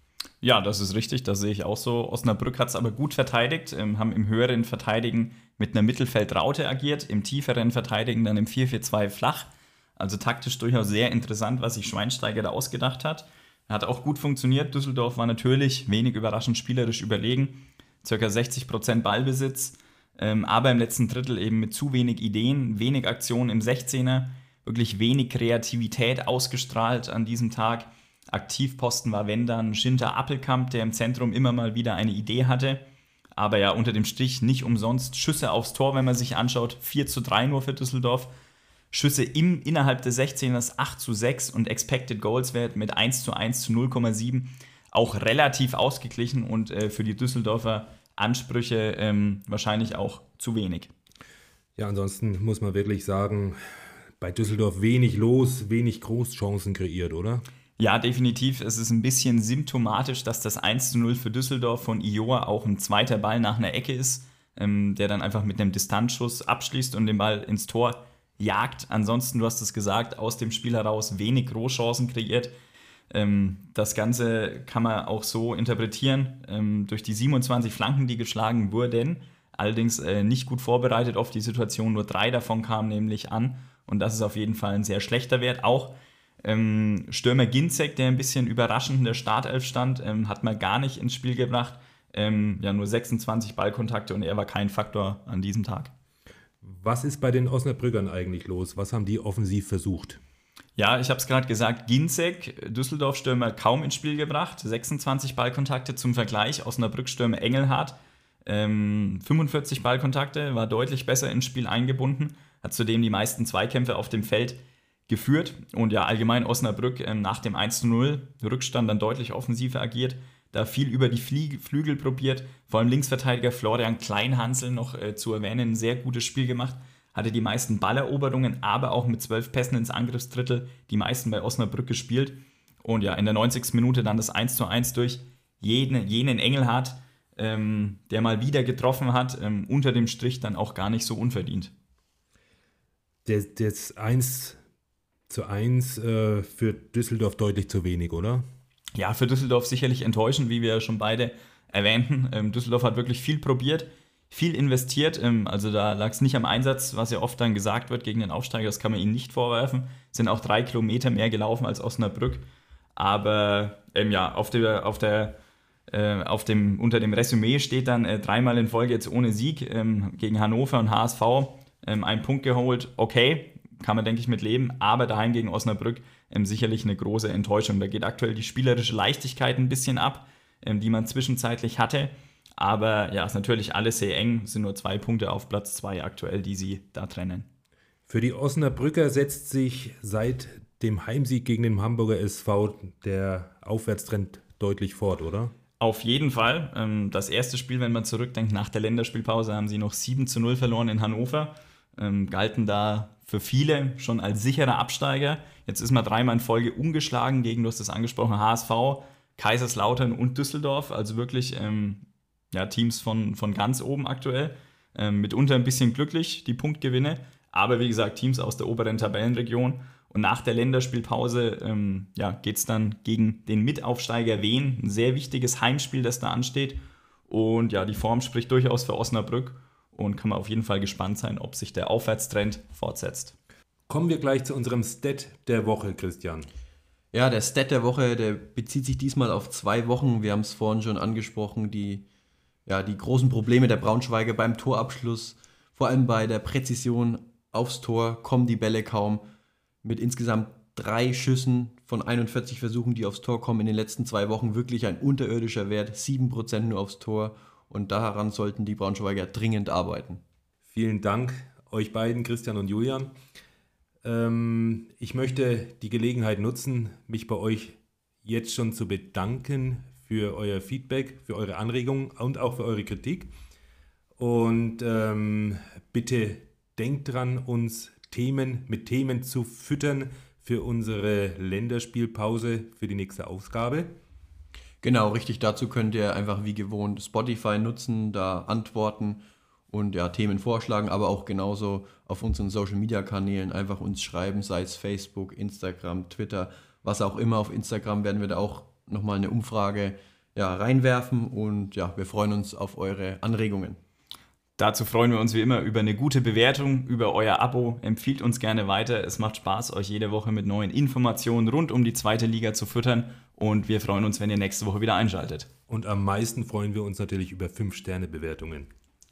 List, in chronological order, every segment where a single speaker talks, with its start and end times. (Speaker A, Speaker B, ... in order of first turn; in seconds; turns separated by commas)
Speaker A: 0.4-32.8, Speaker A: 33.4-38.3, Speaker A: 38.9-50.9, Speaker B: 51.8-53.6, Speaker B: 54.2-57.4, Speaker A: 57.8-72.5, Speaker A: 73.1-95.9, Speaker B: 96.6-100.2, Speaker A: 100.8-141.7, Speaker B: 143.3-144.6, Speaker B: 145.3-148.5, Speaker A: 148.9-165.4, Speaker A: 165.9-187.5, Speaker B: 188.1-195.5, Speaker A: 195.8-233.3, Speaker B: 233.9-236.5, Speaker C: 237.1-242.1, Speaker C: 242.7-249.2, Speaker C: 249.8-260.2, Speaker B: 260.7-263.1, Speaker B: 264.0-273.3, Speaker B: 274.2-283.9, Speaker C: 284.8-303.8, Speaker A: 304.6-315.5, Speaker B: 315.7-318.7